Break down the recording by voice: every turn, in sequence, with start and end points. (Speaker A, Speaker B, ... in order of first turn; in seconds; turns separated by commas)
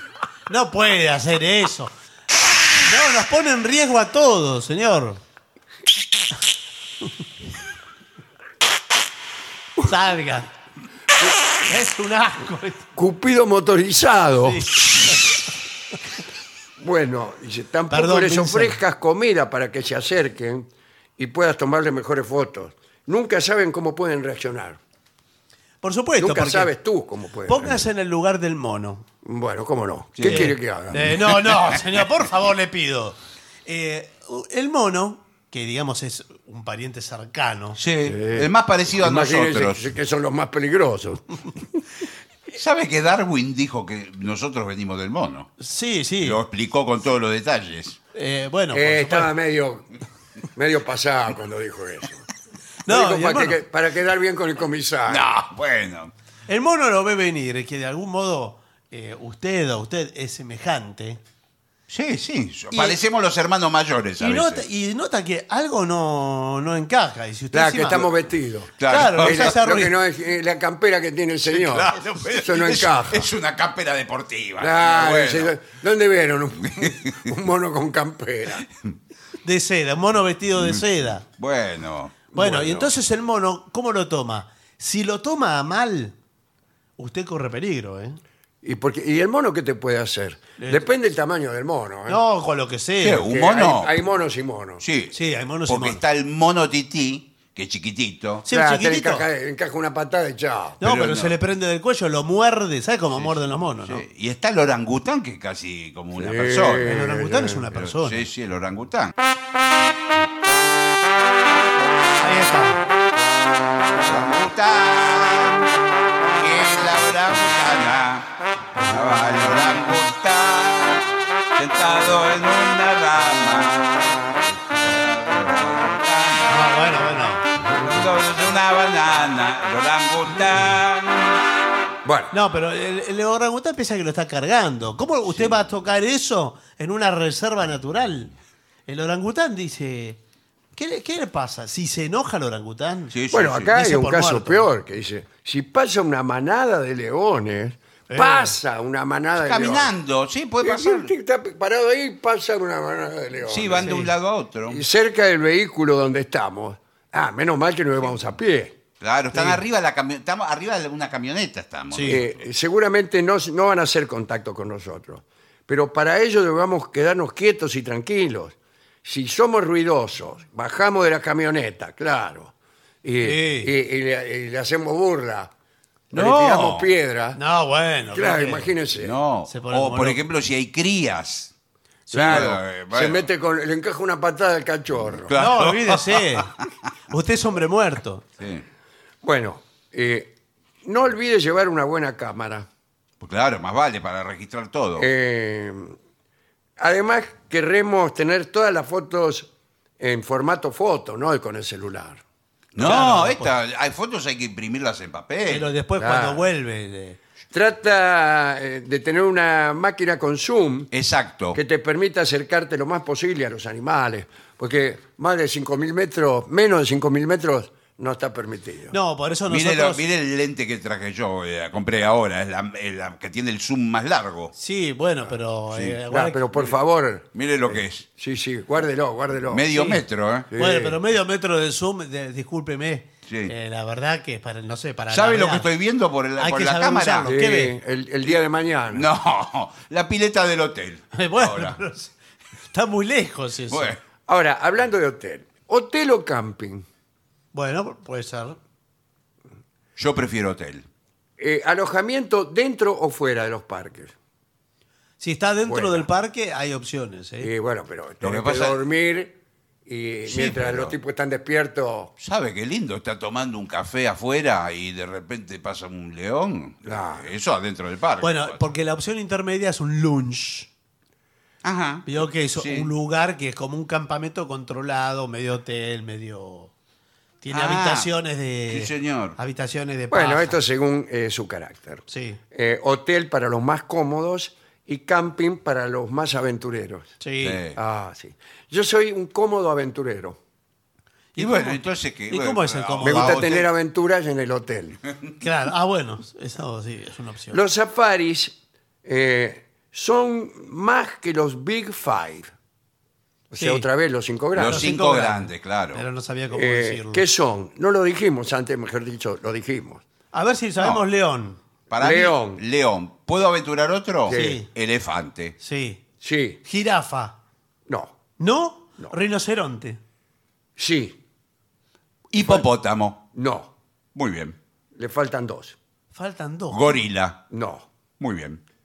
Speaker A: 0.5-1.9, Speaker A: 2.8-5.2, Speaker A: 9.8-10.5, Speaker A: 11.7-12.9, Speaker B: 12.9-14.7, Speaker A: 14.4-15.2, Speaker B: 16.8-20.7, Speaker A: 17.9-18.8, Speaker B: 21.2-24.8, Speaker A: 25.8-26.7, Speaker B: 26.2-27.8, Speaker A: 27.5-29.0, Speaker B: 29.2-31.2, Speaker C: 30.1-30.5, Speaker A: 30.3-37.8, Speaker C: 37.8-39.8, Speaker B: 38.0-41.8, Speaker C: 42.5-45.5, Speaker A: 45.6-46.4, Speaker C: 46.2-48.0, Speaker A: 48.1-49.3, Speaker B: 48.7-49.9, Speaker B: 50.5-52.2, Speaker A: 52.9-53.6, Speaker B: 52.9-55.3, Speaker C: 55.1-56.1, Speaker A: 56.5-61.2, Speaker C: 61.9-64.6, Speaker A: 62.7-63.0, Speaker A: 64.2-68.1, Speaker B: 67.5-73.3, Speaker C: 68.8-69.5, Speaker A: 68.8-69.9, Speaker C: 71.5-75.5, Speaker B: 74.6-78.7, Speaker C: 76.8-77.2, Speaker A: 79.4-81.2, Speaker C: 80.6-82.2, Speaker B: 82.3-82.9, Speaker A: 82.3-86.1, Speaker A: 87.0-88.2, Speaker B: 88.6-92.2, Speaker A: 90.6-90.9, Speaker A: 92.1-93.2, Speaker C: 93.0-93.9, Speaker B: 93.2-94.8, Speaker C: 94.8-95.1, Speaker A: 95.1-96.0, Speaker C: 95.7-98.4, Speaker A: 98.5-99.2, Speaker B: 98.5-100.8, Speaker A: 100.8-104.0, Speaker C: 100.8-101.3, Speaker C: 103.8-106.9, Speaker B: 106.1-107.7, Speaker A: 106.8-108.2, Speaker C: 107.7-109.1, Speaker A: 112.2-112.8, Speaker C: 114.0-115.7, Speaker C: 116.4-126.7, Speaker A: 126.5-127.4, Speaker B: 127.7-127.9, Speaker C: 127.8-131.4, Speaker B: 132.0-132.3, Speaker A: 132.3-138.3, Speaker A: 138.9-140.2, Speaker A: 140.7-143.1, Speaker C: 143.1-143.7, Speaker B: 143.3-149.9, Speaker A: 143.7-144.7, Speaker A: 148.1-148.5, Speaker C: 149.4-151.1, Speaker B: 150.6-154.0, Speaker C: 153.4-154.8, Speaker A: 153.8-154.1, Speaker B: 154.7-158.8, Speaker C: 159.0-162.3, Speaker A: 161.9-162.2, Speaker B: 162.1-175.5, Speaker A: 173.2-173.7, Speaker B: 176.1-177.4, Speaker C: 176.1-176.9, Speaker A: 177.3-178.7, Speaker B: 178.1-179.1, Speaker C: 179.0-181.5, Speaker A: 179.5-180.2, Speaker A: 182.1-182.5, Speaker C: 182.1-183.2, Speaker B: 182.1-185.3, Speaker C: 185.2-186.5, Speaker A: 185.3-186.5, Speaker A: 187.1-188.2, Speaker C: 188.4-188.6, Speaker B: 189.2-192.7, Speaker C: 193.2-195.1, Speaker B: 195.0-196.0, Speaker B: 196.8-202.2, Speaker C: 202.7-205.7, Speaker A: 202.8-203.5, Speaker A: 205.5-207.2, Speaker B: 206.0-206.4, Speaker B: 207.5-210.9, Speaker C: 210.9-211.6, Speaker B: 211.5-218.9, Speaker A: 218.9-220.0, Speaker C: 219.5-224.5, Speaker A: 224.5-226.5, Speaker B: 226.1-229.7, Speaker C: 227.3-228.1, Speaker C: 229.5-230.5, Speaker A: 229.7-230.0, Speaker B: 230.5-231.0, Speaker A: 230.6-235.7, Speaker C: 233.3-233.5, Speaker C: 235.1-237.3, Speaker A: 236.4-237.7, Speaker B: 237.2-239.1, Speaker C: 238.9-241.8, Speaker A: 241.1-242.1, Speaker A: 242.7-243.9, Speaker C: 243.7-244.0, Speaker B: 244.2-246.8, Speaker A: 247.5-248.6, Speaker C: 249.9-250.8, Speaker B: 251.4-254.1, Speaker A: 255.2-257.5, Speaker B: 255.6-256.1, Speaker B: 257.4-262.1, Speaker C: 258.2-258.8, Speaker C: 260.3-260.9, Speaker C: 262.2-268.6, Speaker B: 266.8-267.3, Speaker A: 268.2-270.7, Speaker C: 271.6-272.9, Speaker A: 272.1-276.7, Speaker A: 277.4-280.6, Speaker C: 277.5-278.1, Speaker C: 278.7-279.4, Speaker B: 280.1-287.1, Speaker A: 282.1-282.4, Speaker A: 287.2-287.6, Speaker C: 287.4-287.8, Speaker B: 287.7-290.4, Speaker A: 291.3-293.5, Speaker C: 291.4-293.7, Speaker B: 293.0-295.0, Speaker A: 295.4-297.6, Speaker B: 297.5-302.5, Speaker B: 303.5-304.9, Speaker A: 303.6-303.9, Speaker C: 304.6-306.0, Speaker A: 304.6-307.2, Speaker B: 306.5-310.0, Speaker A: 310.3-311.6, Speaker C: 311.9-315.5, Speaker B: 312.0-312.6, Speaker B: 314.2-314.6, Speaker A: 314.3-314.7, Speaker A: 315.6-316.0, Speaker B: 316.2-316.6, Speaker A: 316.6-317.4, Speaker B: 317.9-318.1, Speaker A: 318.4-320.0, Speaker B: 320.8-321.2, Speaker C: 322.3-323.2, Speaker B: 322.4-322.6, Speaker B: 323.3-323.7, Speaker C: 324.1-324.6, Speaker B: 324.9-325.8, Speaker A: 326.1-327.0, Speaker C: 326.7-327.4, Speaker B: 327.5-327.9, Speaker C: 328.2-328.6